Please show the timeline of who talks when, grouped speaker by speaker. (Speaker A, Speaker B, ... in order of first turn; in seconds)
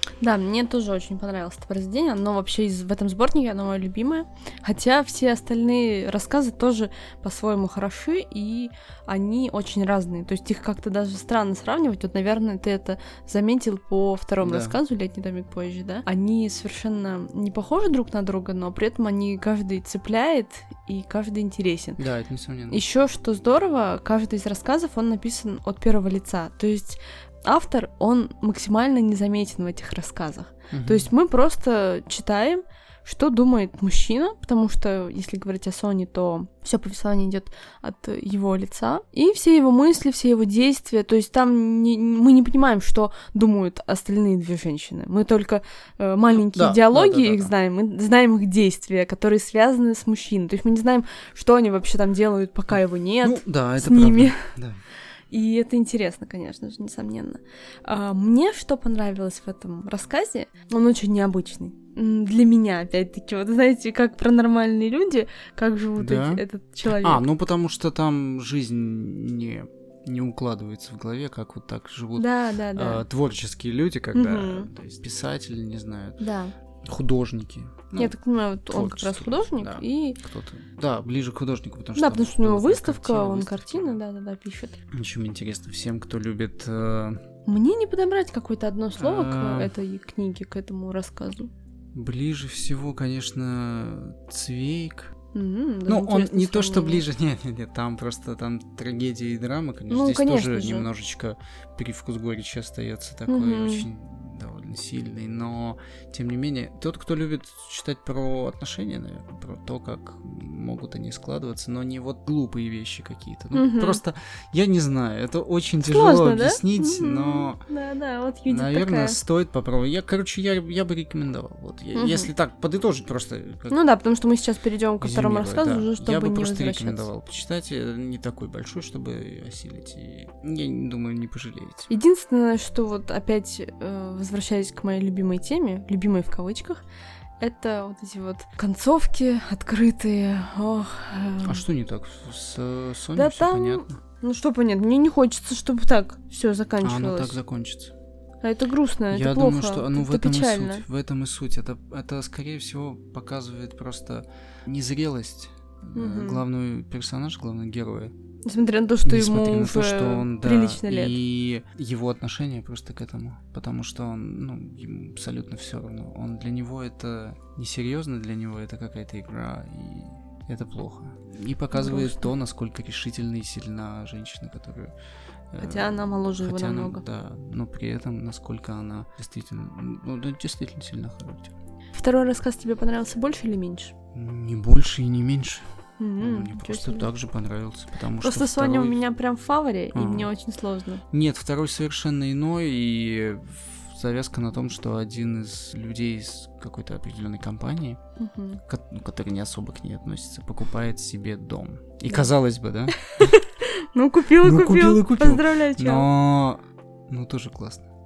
Speaker A: 0.2-22.0, 22.7-54.5, 55.3-67.2, 72.2-73.0, 74.1-74.7, 76.2-76.5, 78.0-80.2, 81.9-84.8, 87.5-91.5, 95.3-97.0, 99.9-100.9, 103.3-103.9, 113.5-114.0, 115.8-119.2, 121.9-122.3, 123.7-127.1, 131.9-136.8, 137.4-141.6, 143.1-147.4, 148.4-150.8, 155.9-156.4, 158.4-161.2, 171.7-172.3, 175.6-177.0, 181.9-183.9, 186.0-187.1, 188.2-191.0, 198.2-198.6, 203.1-206.1
Speaker B: 14.4-14.8, 22.0-22.8, 30.7-31.1, 46.3-47.5, 53.2-54.8, 66.0-76.2, 76.8-78.2, 78.7-84.0, 84.9-87.2, 89.0-89.7, 91.9-95.1, 95.9-117.6, 118.5-123.8, 125.0-131.9, 141.4-144.0, 146.8-147.9, 149.1-158.1, 159.0-174.9, 175.5-181.5, 184.1-185.7, 186.2-189.0, 189.9-190.3, 191.1-198.0, 198.7-203.3, 204.4-207.9